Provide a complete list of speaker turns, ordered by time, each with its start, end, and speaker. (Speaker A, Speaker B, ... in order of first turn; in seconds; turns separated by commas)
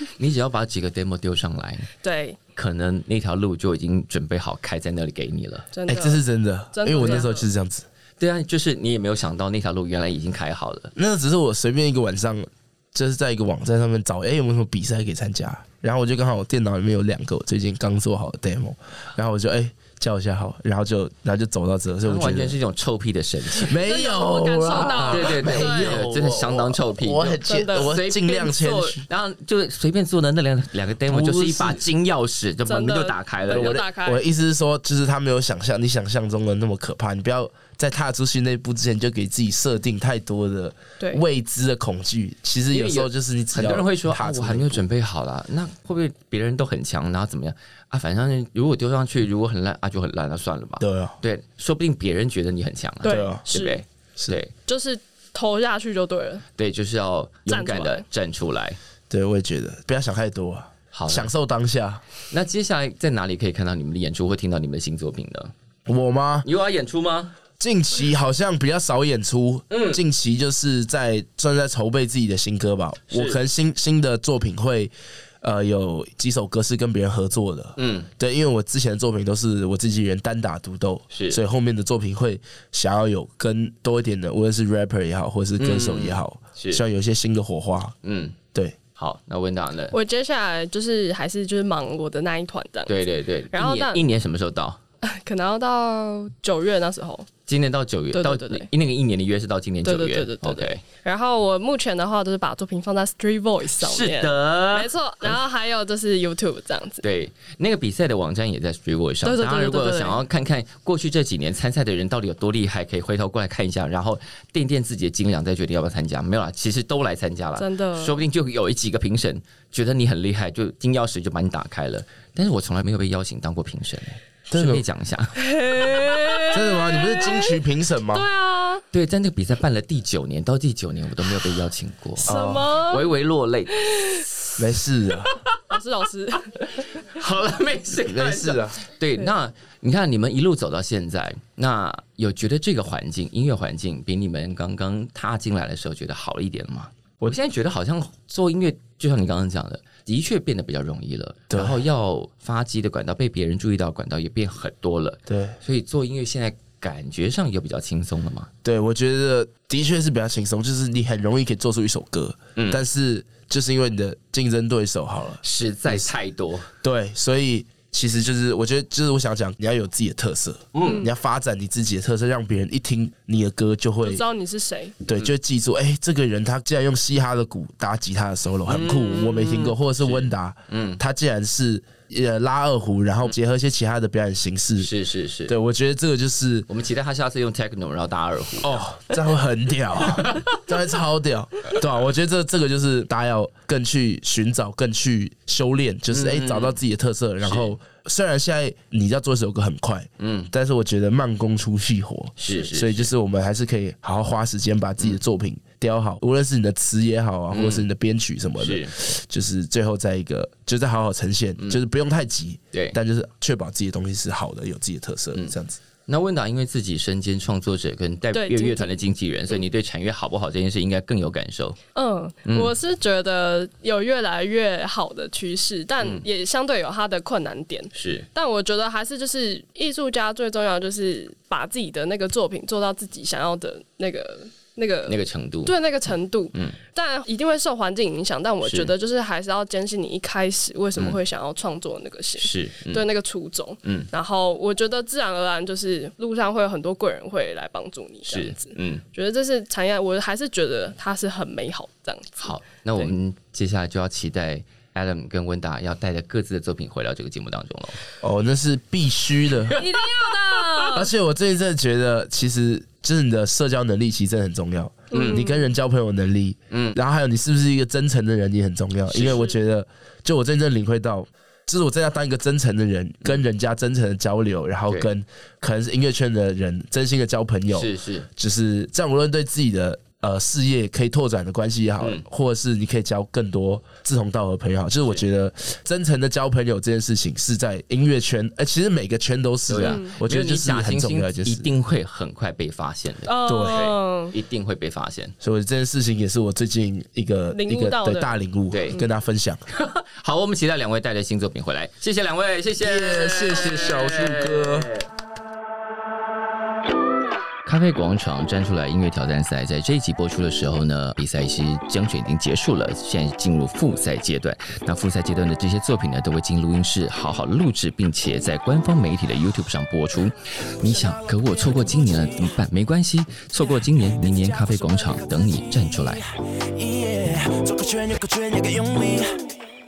Speaker A: 0.2-1.9, Speaker B: 2.0-2.4, Speaker A: 2.5-5.7, Speaker B: 5.7-6.2, Speaker C: 5.9-7.8, Speaker B: 6.7-7.5, Speaker A: 7.0-7.2, Speaker A: 8.2-10.9, Speaker C: 10.9-22.6, Speaker A: 22.0-23.8, Speaker C: 23.6-29.0, Speaker B: 23.7-26.0, Speaker A: 25.1-33.8, Speaker B: 27.5-28.0, Speaker C: 31.1-31.8, Speaker B: 32.6-34.2, Speaker C: 33.5-44.8, Speaker A: 42.7-54.5, Speaker C: 50.8-51.1, Speaker C: 53.0-53.4, Speaker B: 53.0-53.8, Speaker B: 54.6-56.4, Speaker A: 56.6-58.8, Speaker B: 57.5-58.0, Speaker C: 59.1-62.0, Speaker A: 60.9-61.3, Speaker A: 62.3-65.5, Speaker C: 65.9-66.5, Speaker A: 66.4-67.3, Speaker C: 67.6-87.9, Speaker A: 69.7-70.0, Speaker A: 73.1-73.4, Speaker A: 77.8-78.1, Speaker A: 81.1-81.4, Speaker A: 85.6-86.8, Speaker A: 88.0-88.4, Speaker A: 89.0-89.9, Speaker B: 89.9-92.9, Speaker A: 92.9-94.8, Speaker B: 93.5-94.0, Speaker B: 95.0-97.3, Speaker A: 97.5-100.8, Speaker B: 98.1-98.7, Speaker B: 99.8-107.0, Speaker A: 103.8-105.3, Speaker A: 107.0-125.3, Speaker B: 109.2-110.2, Speaker B: 117.6-118.2, Speaker C: 124.5-124.8, Speaker B: 125.4-128.8, Speaker C: 126.5-128.2, Speaker A: 128.9-133.8, Speaker C: 132.2-132.7, Speaker B: 132.2-133.1, Speaker B: 133.7-134.3, Speaker C: 134.6-135.3, Speaker B: 135.7-136.8, Speaker A: 136.9-158.5, Speaker C: 138.1-138.8, Speaker C: 151.5-151.8, Speaker C: 155.3-155.6, Speaker C: 158.6-166.1, Speaker A: 165.4-166.7, Speaker C: 166.8-174.2, Speaker A: 170.7-171.1, Speaker B: 170.8-171.1, Speaker B: 174.0-174.9, Speaker C: 175.0-184.9, Speaker A: 178.7-181.0, Speaker A: 184.8-185.5, Speaker C: 185.5-186.7, Speaker A: 186.7-188.8, Speaker C: 188.6-215.8, Speaker A: 190.2-190.6, Speaker A: 196.1-196.8, Speaker A: 197.4-197.7, Speaker A: 200.2-200.5, Speaker A: 202.4-203.1, Speaker A: 207.5-207.9, Speaker A: 208.6-208.9, Speaker A: 216.1-221.8, Speaker B: 218.3-219.0, Speaker B: 221.9-253.1, Speaker A: 222.4-222.7, Speaker A: 227.9-228.3, Speaker A: 235.1-235.7, Speaker A: 238.6-238.9, Speaker A: 242.4-243.1, Speaker A: 248.3-249.0, Speaker A: 252.4-258.0, Speaker C: 258.2-259.8, Speaker A: 259.6-260.9, Speaker B: 259.7-261.1, Speaker C: 260.9-291.7, Speaker B: 265.1-265.6, Speaker A: 265.1-265.4, Speaker A: 266.7-267.0, Speaker A: 269.1-269.5, Speaker A: 277.7-278.3, Speaker A: 289.7-295.3, Speaker B: 289.8-290.1, Speaker B: 293.2-294.3, Speaker C: 293.4-293.9, Speaker C: 295.4-299.6, Speaker B: 297.5-298.3, Speaker A: 298.7-299.0, Speaker A: 299.7-305.1, Speaker C: 302.8-304.9, Speaker A: 307.6-326.2, Speaker D: 320.8-322.6, Speaker D: 323.6-329.6